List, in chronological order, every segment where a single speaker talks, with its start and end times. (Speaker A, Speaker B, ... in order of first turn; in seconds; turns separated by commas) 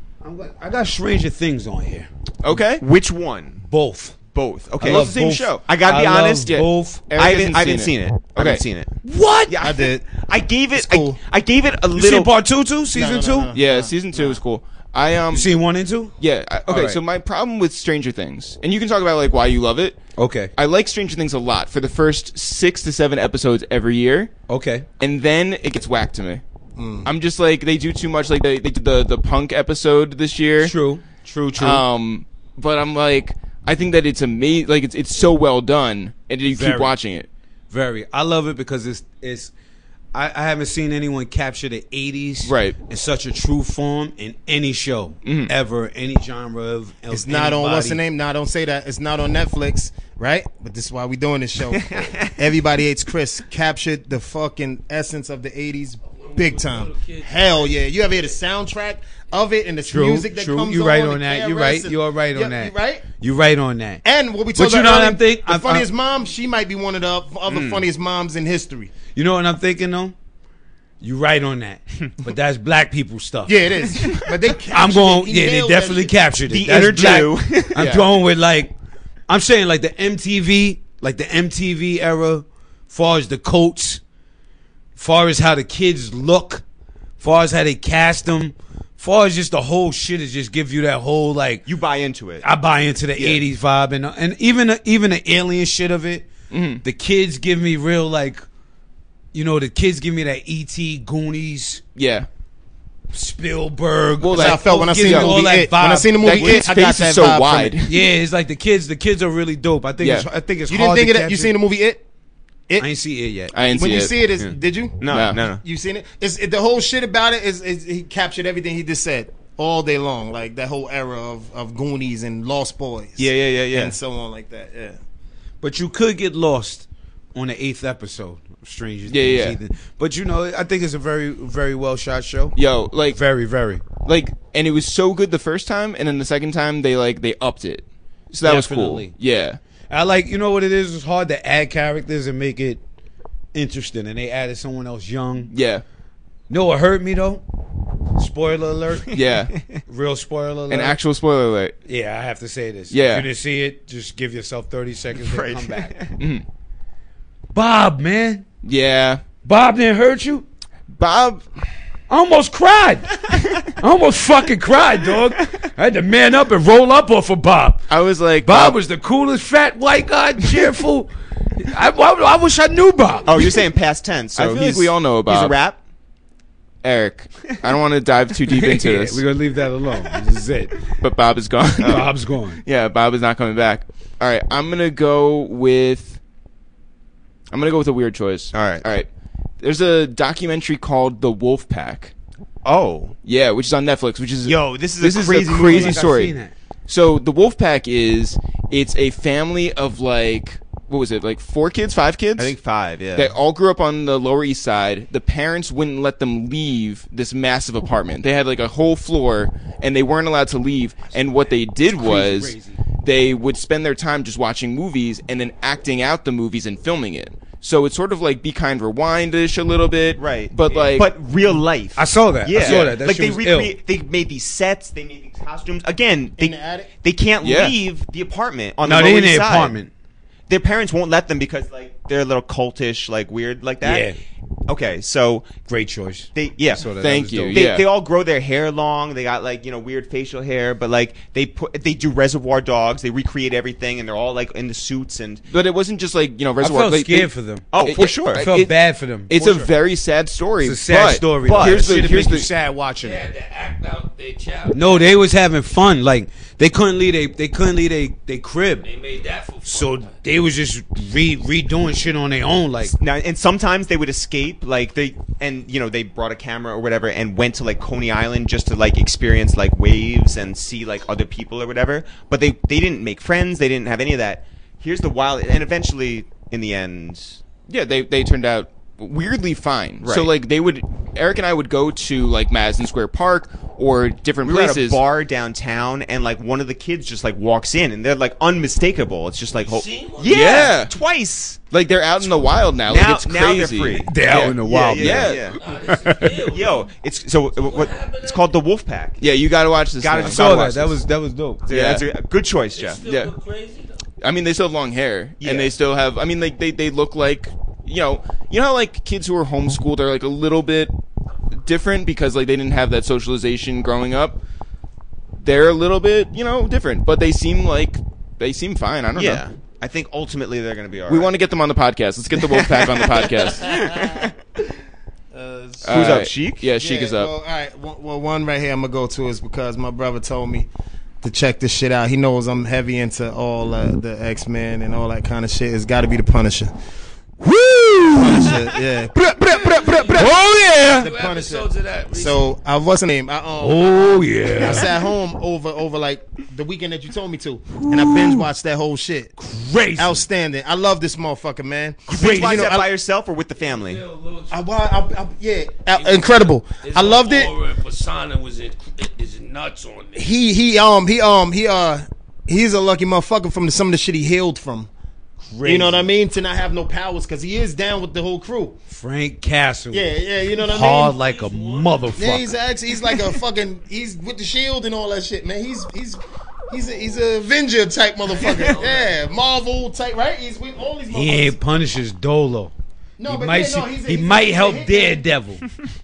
Speaker A: 0.2-2.1, Speaker B: 2.4-2.8, Speaker C: 2.8-3.6, Speaker A: 3.6-4.2, Speaker C: 4.3-6.5, Speaker A: 4.8-7.0, Speaker B: 4.8-5.4, Speaker B: 6.5-8.6, Speaker C: 7.2-8.9, Speaker A: 9.0-9.6, Speaker C: 9.5-12.3, Speaker D: 9.6-10.1, Speaker D: 10.7-11.2, Speaker A: 11.9-13.5, Speaker D: 12.9-14.4, Speaker B: 13.6-15.5, Speaker A: 15.3-16.1, Speaker B: 16.2-20.0, Speaker A: 16.7-17.0, Speaker A: 20.1-20.5, Speaker B: 20.6-24.3, Speaker A: 24.5-24.9, Speaker B: 25.0-26.4, Speaker D: 26.8-27.1, Speaker B: 27.0-30.7, Speaker A: 30.6-31.8, Speaker B: 31.6-37.3, Speaker A: 36.5-36.9, Speaker A: 37.7-39.5, Speaker A: 40.1-48.0, Speaker B: 42.4-42.7, Speaker B: 45.2-45.5, Speaker D: 47.1-63.0, Speaker C: 51.7-52.3, Speaker E: 56.1-57.5, Speaker A: 59.9-64.0, Speaker D: 64.0-68.9, Speaker A: 64.5-65.9, Speaker C: 67.5-67.8, Speaker A: 69.1-70.1, Speaker A: 71.0-73.7, Speaker D: 73.5-76.1, Speaker A: 74.7-78.7, Speaker C: 76.5-77.8, Speaker B: 77.8-78.1, Speaker A: 79.3-84.0, Speaker A: 85.0-86.6, Speaker A: 87.2-91.6, Speaker C: 91.7-92.5, Speaker A: 92.4-96.3, Speaker B: 96.5-96.8, Speaker A: 96.8-98.4, Speaker A: 99.3-101.8, Speaker B: 102.0-102.3, Speaker A: 103.1-106.6, Speaker B: 104.2-105.4, Speaker D: 104.3-107.8, Speaker B: 106.2-108.0, Speaker A: 107.9-111.5, Speaker B: 110.0-110.3, Speaker D: 110.7-112.0, Speaker A: 112.8-113.5, Speaker B: 113.5-114.1, Speaker D: 113.7-115.0, Speaker C: 114.4-115.6, Speaker B: 115.1-115.4, Speaker D: 115.6-125.0, Speaker C: 123.2-124.0, Speaker A: 125.6-132.6, Speaker B: 129.1-129.6, Speaker B: 132.6-133.2, Speaker A: 133.1-133.8, Speaker B: 134.1-139.6, Speaker A: 138.3-139.1, Speaker A: 139.9-142.8, Speaker A: 143.5-145.5, Speaker B: 145.5-145.8, Speaker A: 146.5-147.4, Speaker A: 148.2-149.2, Speaker B: 149.1-149.5, Speaker A: 149.9-151.0, Speaker B: 150.7-151.8, Speaker A: 151.9-155.9, Speaker B: 152.9-153.3, Speaker C: 155.1-156.2, Speaker B: 156.2-156.4, Speaker A: 157.5-158.4, Speaker B: 158.6-159.2, Speaker A: 159.4-160.4, Speaker B: 160.9-161.4, Speaker A: 162.1-167.8, Speaker C: 163.3-163.6, Speaker B: 167.9-168.8, Speaker A: 168.4-173.6, Speaker C: 173.3-175.8, Speaker B: 174.4-175.6, Speaker B: 176.8-179.2, Speaker A: 178.5-180.7, Speaker B: 181.0-182.1, Speaker A: 181.8-182.6, Speaker B: 182.6-186.2, Speaker B: 187.5-189.1, Speaker C: 188.5-188.8, Speaker B: 189.6-192.1, Speaker C: 192.6-193.1, Speaker B: 193.2-196.3, Speaker C: 194.4-196.0, Speaker A: 195.6-196.5, Speaker B: 196.9-202.5, Speaker C: 202.4-203.3, Speaker B: 203.2-221.1, Speaker A: 211.9-212.8, Speaker C: 220.2-229.8, Speaker A: 221.9-223.8, Speaker B: 222.6-222.9, Speaker D: 226.4-226.9, Speaker B: 227.4-227.8, Speaker A: 228.8-229.9, Speaker C: 230.5-234.1, Speaker A: 233.8-234.2, Speaker C: 234.7-235.6, Speaker A: 235.7-237.6, Speaker C: 236.3-236.9, Speaker B: 237.0-237.8, Speaker C: 237.5-245.4, Speaker B: 245.5-252.5, Speaker A: 246.6-247.7, Speaker C: 247.7-248.4, Speaker A: 248.3-249.7, Speaker A: 250.6-253.3, Speaker C: 251.4-252.1, Speaker E: 253.0-255.1, Speaker A: 254.7-258.9, Speaker E: 258.8-260.1, Speaker A: 259.6-262.9, Speaker C: 262.9-277.4, Speaker B: 277.7-285.0, Speaker C: 280.0-280.3, Speaker C: 284.4-291.6, Speaker E: 289.6-290.7, Speaker B: 290.3-290.9, Speaker B: 291.7-295.4, Speaker C: 292.9-295.6, Speaker A: 294.1-296.5, Speaker E: 295.6-296.9, Speaker C: 296.5-299.2, Speaker E: 297.6-298.5, Speaker B: 299.2-300.7, Speaker C: 300.0-301.0, Speaker A: 300.2-301.6, Speaker C: 301.6-303.0, Speaker B: 301.7-302.0, Speaker E: 302.7-304.0, Speaker B: 303.1-303.3, Speaker B: 304.2-310.9, Speaker C: 305.4-305.7, Speaker B: 311.6-314.4, Speaker B: 315.4-319.4, Speaker C: 319.1-321.3, Speaker B: 321.1-323.8, Speaker C: 322.4-324.3, Speaker D: 323.6-324.3, Speaker D: 325.3-326.1, Speaker B: 325.8-327.3, Speaker C: 325.9-326.6, Speaker D: 326.8-330.7, Speaker D: 331.2-336.7, Speaker A: 337.4-341.1, Speaker D: 338.1-340.2, Speaker E: 339.5-342.5, Speaker D: 341.0-349.3, Speaker A: 343.6-344.9, Speaker A: 347.8-348.5, Speaker A: 349.4-350.3, Speaker D: 349.9-352.9, Speaker C: 352.1-354.0, Speaker A: 352.1-352.7, Speaker E: 353.6-354.6, Speaker D: 354.5-357.5, Speaker E: 355.9-360.3, Speaker D: 360.1-364.9, Speaker A: 365.4-366.1, Speaker D: 365.6-368.8, Speaker A: 368.9-370.1, Speaker D: 369.9-371.1, Speaker E: 370.6-372.2, Speaker A: 370.6-372.6, Speaker D: 372.1-381.6, Speaker E: 378.3-379.1, Speaker A: 381.1-382.7, Speaker D: 383.2-385.2, Speaker A: 383.2-385.7